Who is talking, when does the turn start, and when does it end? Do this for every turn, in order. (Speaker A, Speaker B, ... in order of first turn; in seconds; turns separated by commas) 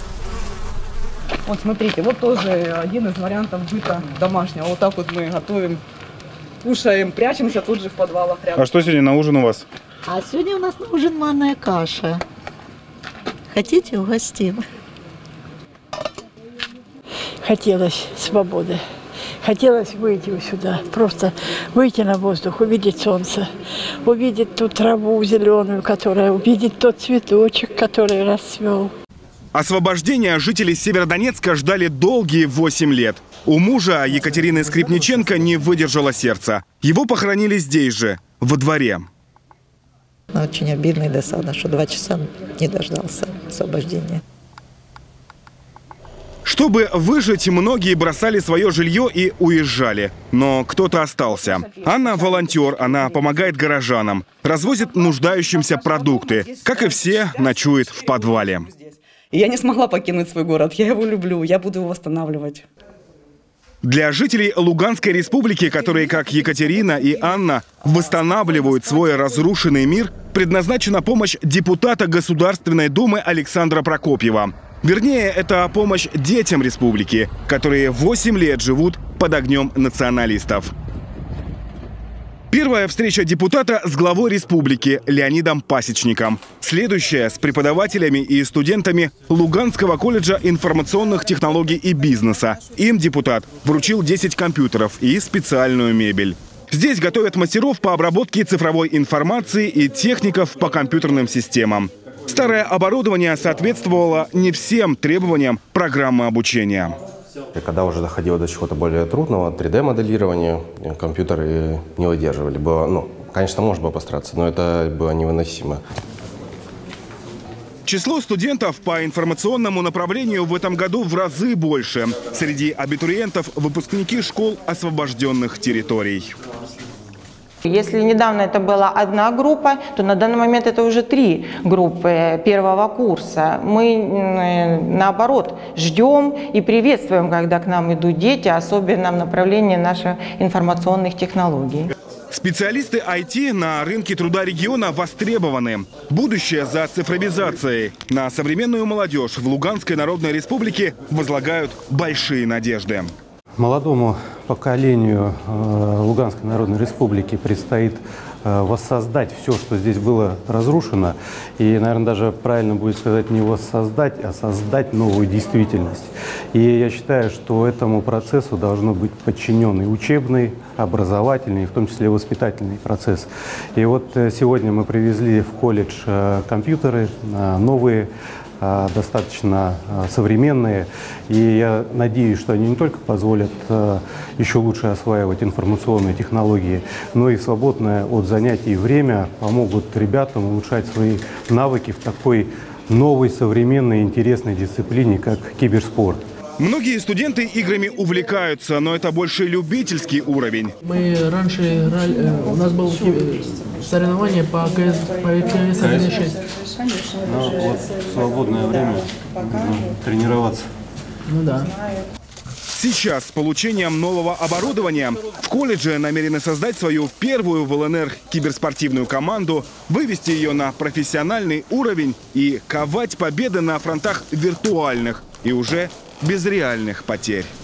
Speaker A: 1.4-5.8, Speaker A: 6.6-8.8, Speaker B: 8.6-9.6, Speaker C: 10.1-12.2, Speaker C: 13.5-14.6, Speaker D: 17.4-18.8, Speaker D: 19.4-23.5, Speaker D: 24.0-28.9, Speaker B: 29.5-39.1, Speaker C: 40.3-44.2, Speaker B: 46.4-58.7, Speaker A: 56.1-57.3, Speaker A: 58.1-62.7, Speaker B: 63.8-80.7, Speaker B: 82.5-107.0, Speaker E: 107.5-115.8, Speaker B: 117.8-126.3, Speaker F: 127.6-141.9, Speaker B: 142.3-153.1, Speaker G: 153.6-178.1, Speaker G: 178.6-196.2, Speaker B: 196.6-200.7, Speaker H: 200.8-206.4, Speaker G: 205.8-206.2, Speaker G: 207.2-210.7, Speaker H: 211.3-211.7, Speaker B: 212.7-227.5